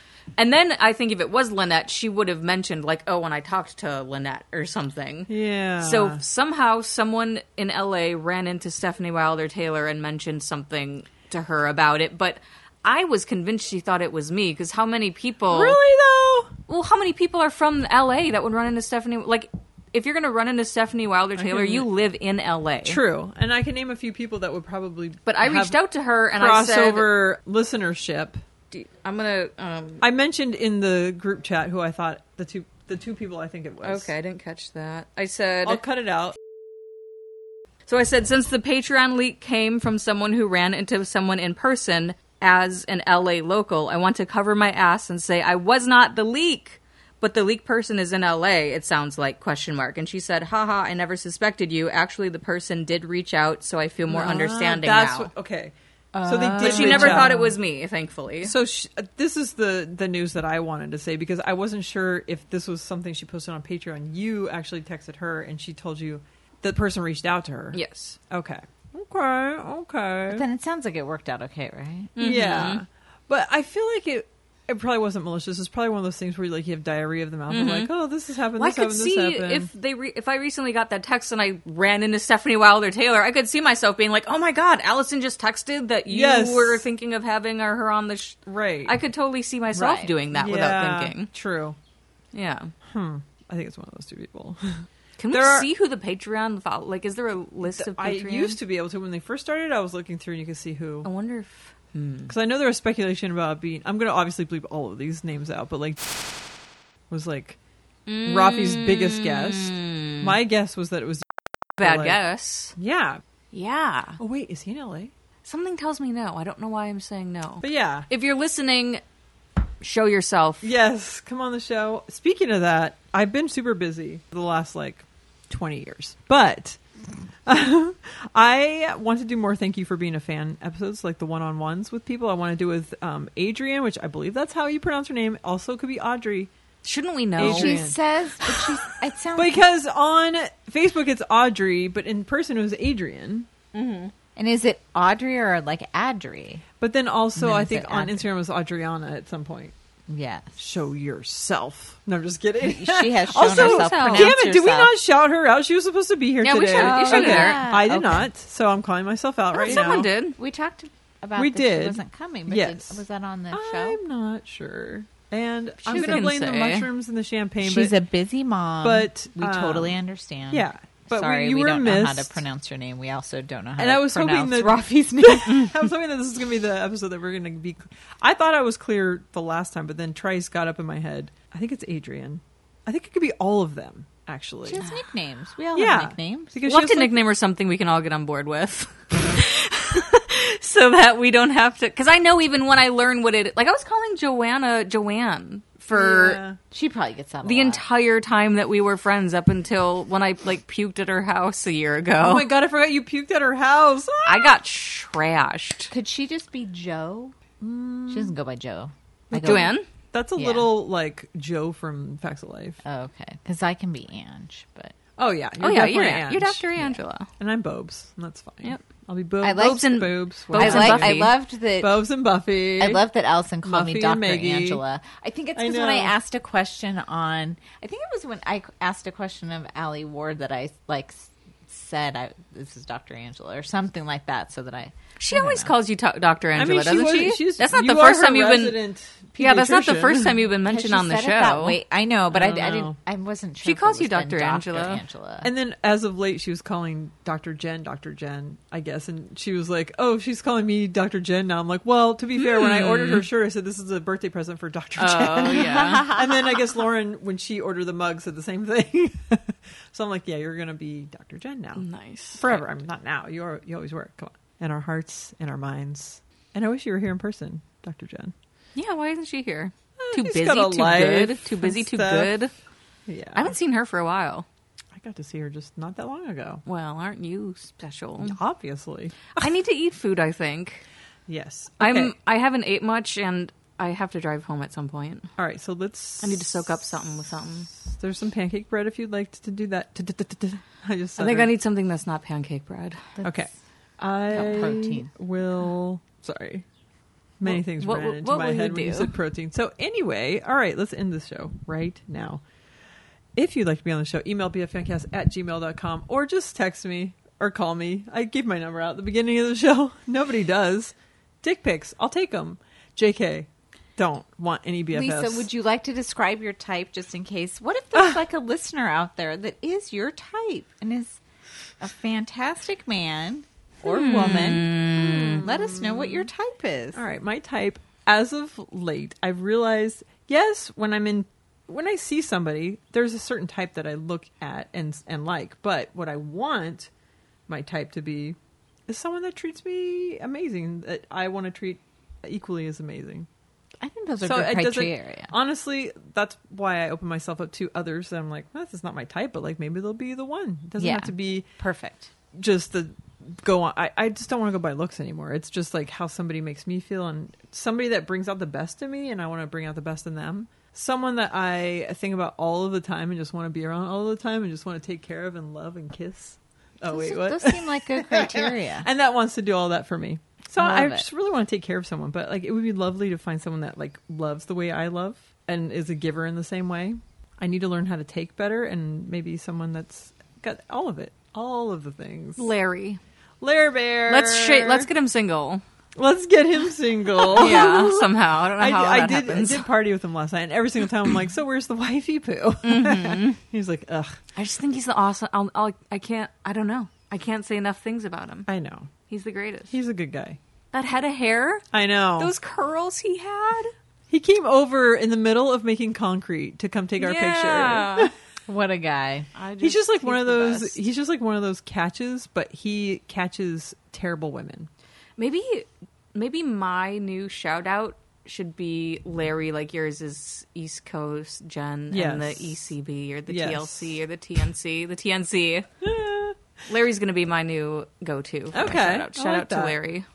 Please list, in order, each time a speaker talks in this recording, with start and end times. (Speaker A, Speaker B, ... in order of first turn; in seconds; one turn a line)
Speaker A: 0.4-15.8
Speaker B: 5.3-6.2
Speaker B: 15.5-16.5
Speaker A: 16.7-23.0
Speaker B: 21.4-21.9
Speaker B: 22.9-25.8
Speaker A: 25.3-27.2
Speaker B: 26.3-28.4
Speaker A: 28.7-30.1
Speaker B: 30.0-34.1
Speaker A: 33.8-35.8
Speaker B: 35.6-36.4
Speaker A: 37.9-55.3
Speaker B: 54.1-57.4
Speaker C: 56.1-57.6
Speaker A: 56.6-58.5
Speaker B: 58.4-70.4
Speaker A: 67.7-68.2
Speaker C: 70.3-72.1
Speaker A: 72.2-72.8
Speaker B: 72.2-79.7
Speaker A: 77.5-77.9
Speaker A: 78.6-91.3
Speaker B: 86.1-86.9
Speaker B: 88.5-89.0
Speaker B: 89.8-91.8
Speaker C: 89.8-90.1
Speaker A: 92.3-92.7
Speaker B: 92.9-95.7
Speaker A: 95.2-98.6
Speaker B: 97.7-101.1
Speaker A: 101.0-102.3
Speaker B: 102.3-106.5
Speaker B: 107.1-107.6
Speaker A: 108.1-110.4
Speaker B: 108.2-112.2
Speaker A: 111.8-112.7
Speaker B: 112.8-113.2
Speaker A: 113.5-114.2
Speaker B: 114.2-115.1
Speaker A: 115.5-119.0
Speaker B: 117.6-118.1
Speaker A: 119.8-120.7
Speaker B: 120.6-126.8
Speaker B: 127.5-136.5
Speaker A: 136.8-137.8
Speaker B: 137.4-138.0
Speaker C: 137.4-139.7
Speaker B: 139.3-143.5
Speaker A: 143.7-144.1
Speaker C: 144.4-146.6
Speaker B: 146.8-149.7
Speaker C: 147.4-148.3
Speaker C: 150.1-150.6
Speaker B: 150.6-160.1
Speaker C: 152.6-154.9
Speaker A: 153.4-154.5
Speaker A: 156.4-157.8
Speaker C: 156.7-158.3
Speaker A: 159.5-160.4
Speaker C: 159.6-164.0
Speaker B: 161.4-163.0
Speaker B: 163.5-168.0
Speaker A: 165.8-166.9
Speaker C: 165.9-166.3
Speaker C: 167.6-175.7
Speaker B: 168.8-170.0
Speaker B: 170.5-172.4
Speaker B: 173.8-184.8
Speaker C: 184.7-186.6
Speaker B: 185.7-187.2
Speaker A: 186.7-196.4
Speaker B: 195.9-196.6
Speaker C: 196.7-197.8
Speaker A: 197.4-202.5
Speaker B: 202.2-204.6
Speaker A: 204.2-205.9
Speaker C: 205.9-207.4
Speaker B: 207.6-208.3
Speaker C: 208.1-209.7
Speaker B: 209.3-212.8
Speaker A: 209.4-209.9
Speaker C: 210.4-210.7
Speaker C: 212.8-214.9
Speaker B: 215.2-216.6
Speaker A: 215.6-217.3
Speaker B: 217.4-223.0
Speaker C: 219.4-222.1
Speaker A: 219.5-221.3
Speaker C: 222.8-235.7
Speaker B: 223.6-224.8
Speaker B: 225.6-226.1
Speaker A: 235.2-238.8
Speaker B: 236.6-240.4
Speaker A: 239.4-241.8
Speaker C: 240.6-245.5
Speaker B: 242.3-242.9
Speaker A: 243.6-245.0
Speaker B: 245.4-261.9
Speaker A: 252.4-253.3
Speaker A: 255.0-256.1
Speaker C: 255.5-256.5
Speaker A: 261.8-262.6
Speaker B: 262.4-268.3
Speaker A: 268.8-272.5
Speaker B: 270.0-272.3
Speaker B: 273.1-273.6
Speaker A: 273.4-274.5
Speaker B: 274.9-276.6
Speaker A: 276.7-278.4
Speaker B: 278.2-279.5
Speaker A: 279.4-280.8
Speaker B: 281.3-282.1
Speaker A: 281.8-285.3
Speaker B: 285.4-287.0
Speaker A: 286.2-287.7
Speaker B: 287.7-291.5
Speaker A: 291.2-293.1
Speaker C: 293.2-293.4
Speaker B: 293.2-296.6
Speaker C: 294.3-295.1
Speaker B: 297.4-302.4
Speaker A: 297.4-299.1
Speaker B: 303.4-315.5
Speaker C: 314.9-321.2
Speaker C: 321.8-327.0
Speaker A: 323.9-325.4
Speaker B: 323.9-326.3
Speaker B: 326.9-336.9
Speaker B: 337.5-343.3
Speaker C: 343.8-345.3
Speaker B: 344.2-351.5
Speaker C: 350.8-352.1
Speaker B: 352.3-382.5
Speaker C: 366.9-368.9
Speaker C: 370.6-371.1
Speaker A: 382.4-383.0
Speaker B: 383.4-384.9
Speaker A: 384.1-385.6
Speaker B: 386.0-394.2
Speaker A: 387.2-389.7
Speaker C: 387.4-387.8
Speaker A: 392.6-393.4
Speaker A: 394.4-398.5
Speaker B: 398.5-398.9
Speaker A: 399.1-399.7
Speaker B: 399.7-400.4
Speaker A: 400.7-401.7
Speaker B: 401.7-402.3
Speaker A: 402.2-403.7
Speaker B: 404.1-408.1
Speaker A: 407.0-408.1
Speaker C: 408.5-409.3
Speaker A: 409.4-410.8
Speaker B: 409.6-414.7
Speaker A: 415.2-425.7
Speaker B: 421.9-422.6
Speaker B: 423.3-424.0
Speaker B: 425.8-426.4
Speaker A: 426.7-430.1
Speaker B: 428.5-429.8